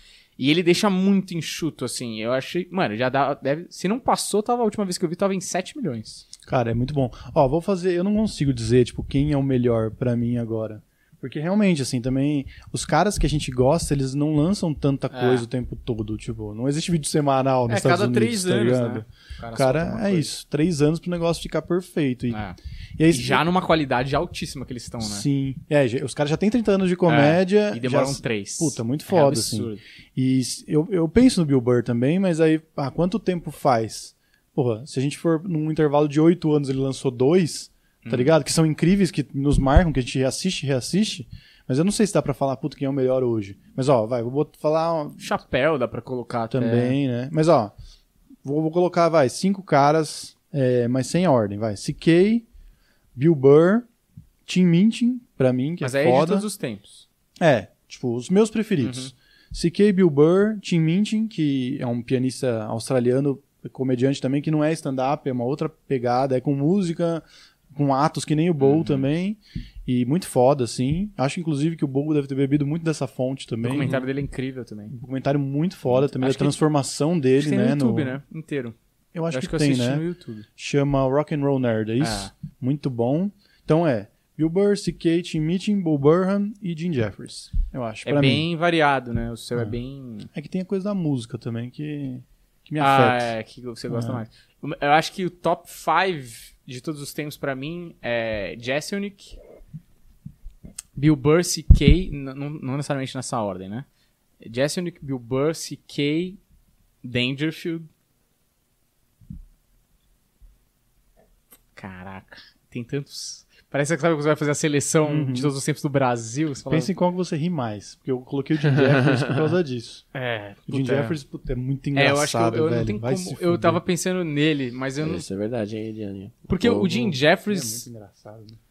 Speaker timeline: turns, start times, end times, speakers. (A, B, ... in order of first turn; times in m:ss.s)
0:00.4-0:06.2 A
0:06.5-0:22.4 B
0:15.1-0:15.4 A
0:17.7-0:20.3 A
0:22.3-0:22.6 A
0:23.0-0:23.4 B
0:23.1-0:25.2 A
0:25.0-0:45.3 B
0:27.1-0:29.8 A
0:38.0-0:38.3 A
0:45.2-0:47.0 A
0:46.5-0:47.7 B
0:48.4-0:52.4 B
0:53.1-0:53.9 B
0:54.5-0:56.4 B
0:55.8-0:57.0 A
0:57.4-1:14.0 B
0:58.8-0:59.1 A
1:08.6-1:09.0 A
1:13.6-1:14.9 A
1:14.9-1:18.2 B
1:15.9-1:16.6 A
1:17.4-1:18.7 A
1:19.1-1:20.0 B
1:19.3-1:20.4 A
1:20.6-1:28.4 B
1:22.0-1:22.3 A
1:28.0-1:30.3 A
1:30.3-1:33.3 B
1:32.8-1:39.4 A
1:33.9-1:34.2 B
1:41.0-1:43.8 A
1:44.4-1:46.4 A
1:47.0-1:47.9 A
1:51.8-1:56.9 A
1:55.0-1:55.5 B
1:56.7-2:00.0 B
1:58.7-1:59.5 C
2:00.1-2:01.2 A
2:00.7-2:03.8 B
2:01.9-2:05.2 A
2:05.0-2:07.2 C
2:06.5-2:07.8 A
2:07.5-2:08.6 B